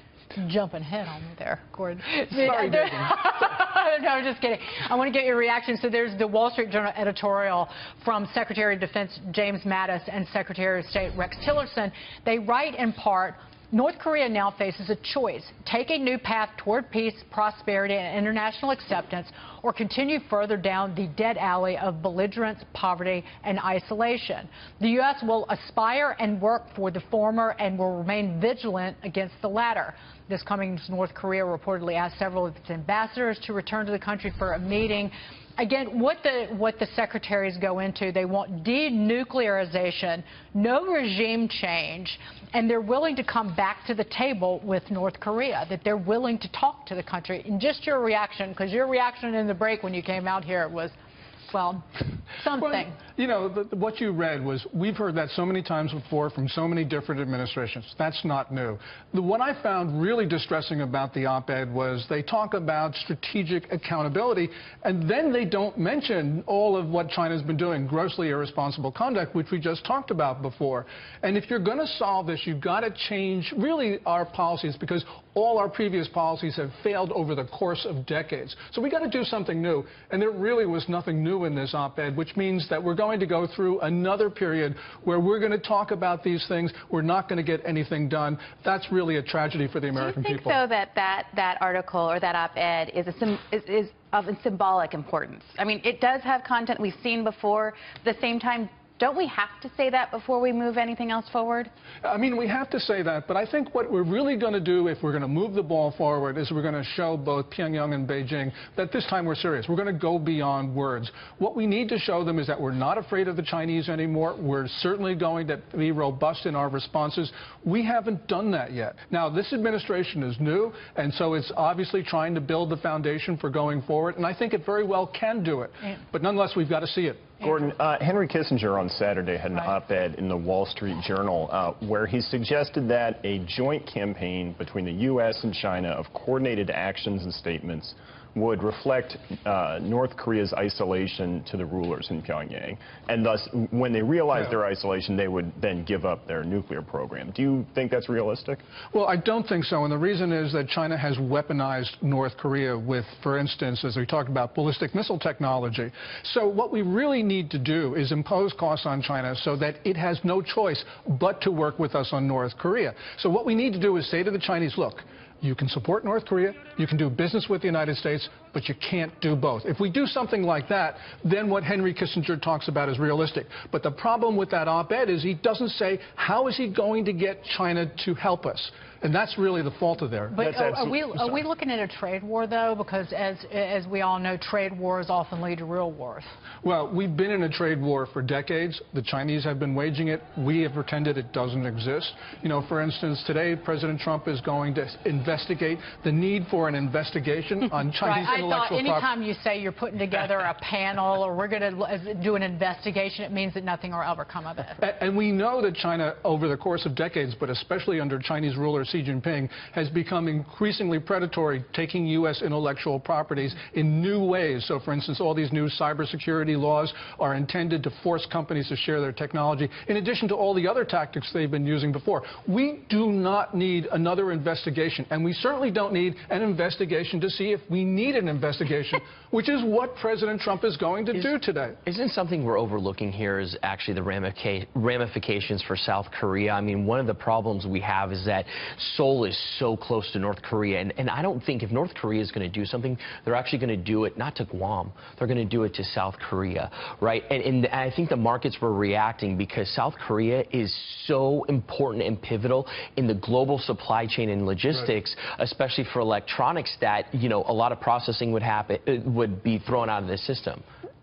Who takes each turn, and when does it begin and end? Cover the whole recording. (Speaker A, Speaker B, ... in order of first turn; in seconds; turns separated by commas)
Speaker A: 0.3-50.9, Speaker A: 51.5-53.0, Speaker B: 52.6-90.6, Speaker C: 89.9-101.7, Speaker B: 102.0-127.4, Speaker D: 127.4-148.6, Speaker B: 148.9-180.4, Speaker A: 180.3-186.3, Speaker D: 180.4-181.4, Speaker B: 186.6-199.1, Speaker A: 198.0-204.8, Speaker B: 204.8-231.8, Speaker E: 231.8-260.6